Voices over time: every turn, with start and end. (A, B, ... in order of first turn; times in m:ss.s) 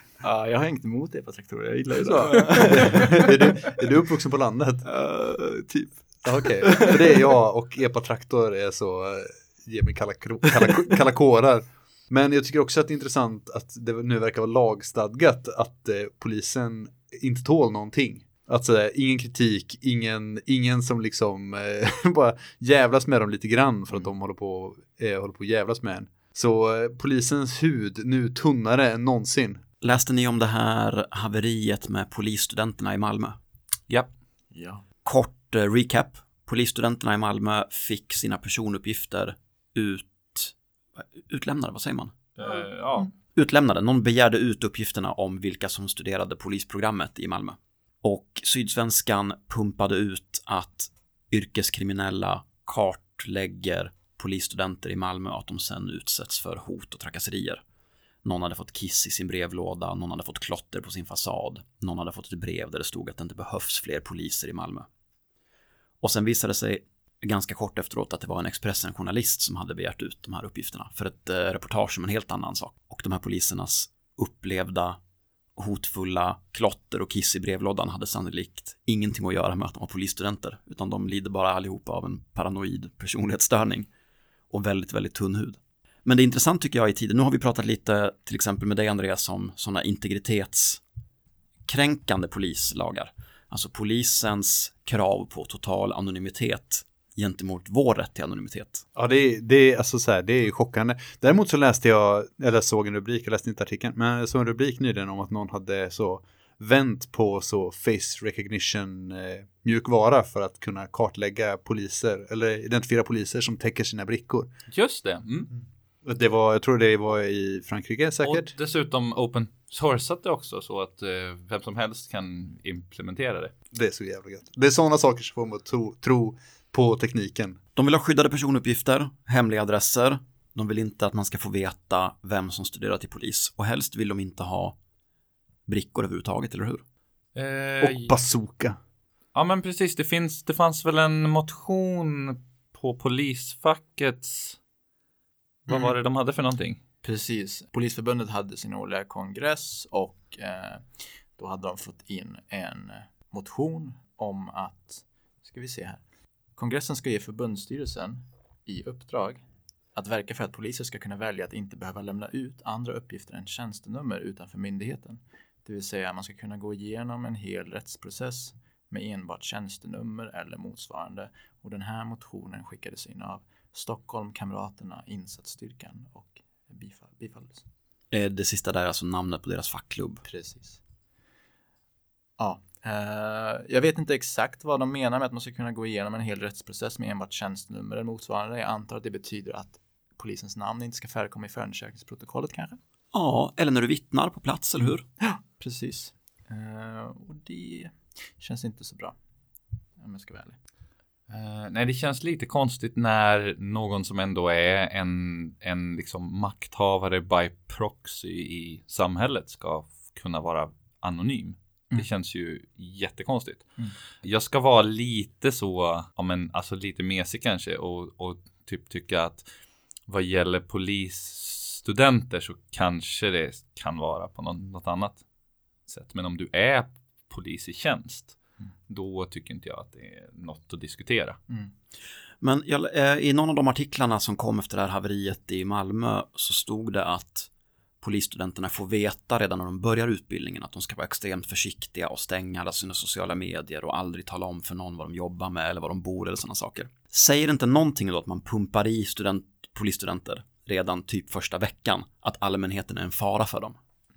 0:00.2-0:03.8 A
0:02.0-0:04.8 B
0:04.8-0:07.3 A
0:06.2-0:29.6 B
0:29.8-0:33.4 C
0:34.5-0:34.8 A
0:35.0-0:42.2 C
0:42.4-0:43.1 D
0:43.3-0:57.6 C
0:58.2-1:04.9 C
1:06.0-1:15.0 C
1:15.6-1:23.9 C
1:24.5-1:30.8 C
1:31.7-1:38.8 C
1:38.9-1:54.5 B
1:54.7-1:55.5 D
1:56.0-1:58.5 B
1:58.2-2:03.5 D
2:03.7-2:07.6 B
2:07.8-2:14.8 C
2:15.7-2:16.8 C
2:17.3-2:18.2 D
2:17.8-2:18.8 B
2:19.3-2:24.6 D
2:25.7-2:25.9 A
2:25.7-2:26.8 D
2:27.0-2:36.0 A
2:36.6-2:39.4 A
2:39.9-2:57.6 A
2:58.1-3:00.2 C
3:00.2-3:00.8 A
3:02.4-3:12.8 A
3:13.1-3:15.0 C
3:15.2-3:19.2 A
3:20.0-3:20.6 A
3:21.3-3:33.7 D
3:34.2-3:39.4 D
3:40.1-3:45.2 D
3:45.9-3:48.4 D
3:48.9-3:51.4 D
3:52.4-3:57.5 C
3:58.0-4:13.8 C